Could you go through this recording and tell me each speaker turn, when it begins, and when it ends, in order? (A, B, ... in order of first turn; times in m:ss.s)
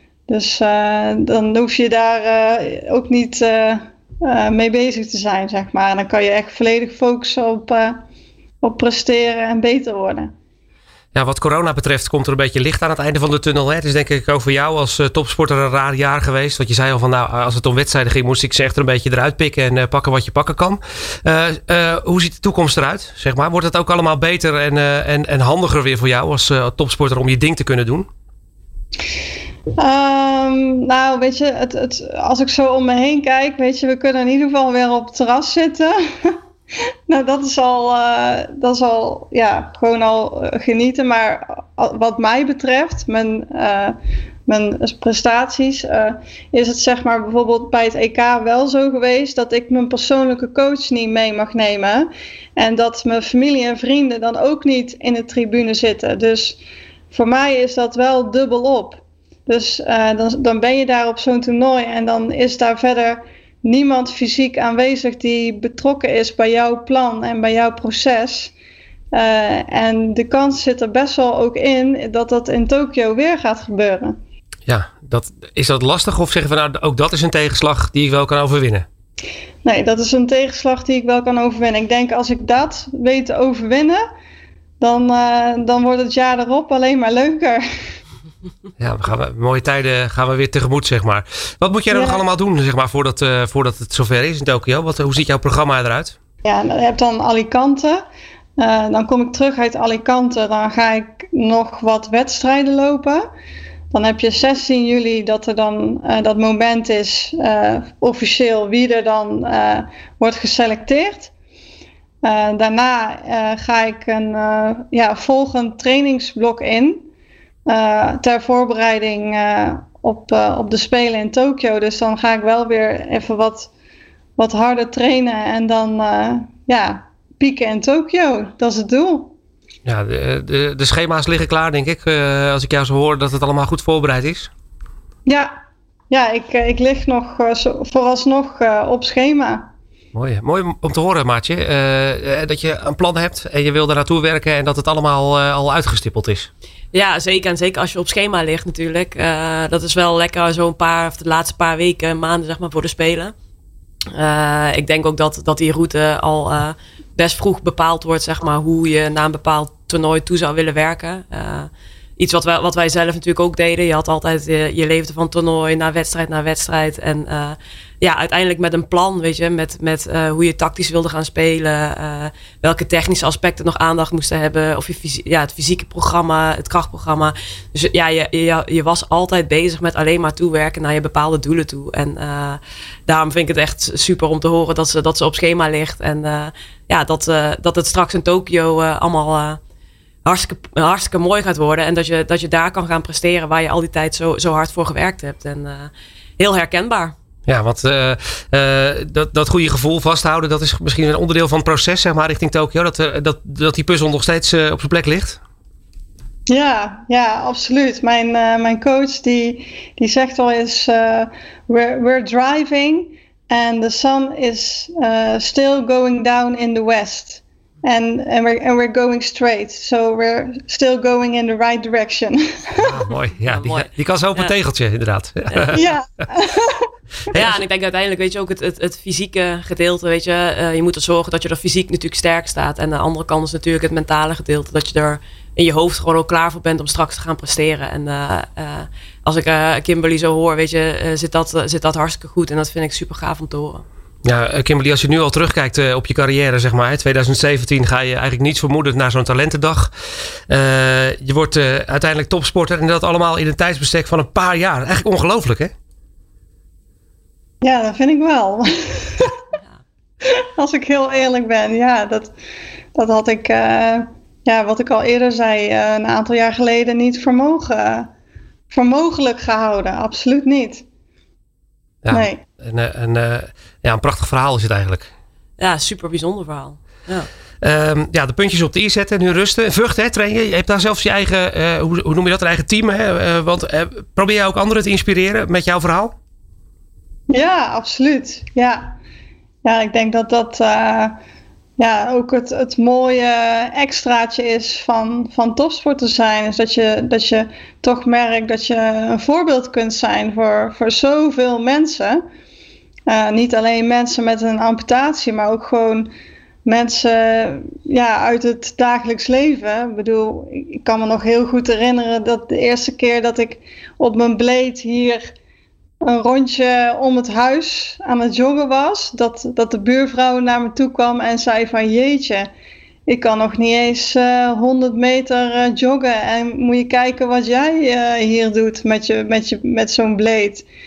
0:00.3-0:08.0 A
0:08.6-0:10.3 A
0:11.1-0:28.1 B
0:29.8-0:36.4 A
0:37.1-0:56.6 A
0:57.1-1:08.5 A
1:09.1-1:14.2 A
1:14.7-1:18.9 B
1:19.6-1:24.0 A
1:24.8-1:27.9 A
1:28.8-1:36.2 B
1:31.9-1:32.2 A
1:36.4-1:38.0 A
1:38.6-1:43.3 A
1:43.9-1:51.3 A
1:52.2-1:57.1 A
1:57.7-2:03.7 A
2:04.4-2:09.3 A
2:09.8-2:14.5 B
2:15.3-2:15.5 A
2:16.1-2:19.7 A
2:20.1-2:26.5 B
2:26.9-2:33.3 C
2:34.1-3:09.6 C
3:10.2-3:17.2 C
3:17.5-3:25.4 B
3:26.5-3:43.0 A
3:42.8-3:45.9 B
3:43.4-3:44.5 C
3:45.5-3:45.9 C
3:45.7-3:46.9 A
3:47.3-4:03.8 C
4:04.2-4:09.9 B
4:10.5-4:15.7 B
4:17.6-4:19.4 A
4:20.2-4:22.3 A
4:23.0-4:28.1 A
4:28.7-4:30.8 A
4:32.0-4:35.1 B
4:32.1-4:32.4 A
4:35.6-4:37.3 C
4:37.6-4:46.1 B
4:47.3-4:49.0 A
4:49.6-4:51.2 A
4:51.8-5:02.2 A
5:03.1-5:06.1 A
5:06.6-5:15.3 A
5:16.0-5:22.5 A
5:23.1-5:30.7 A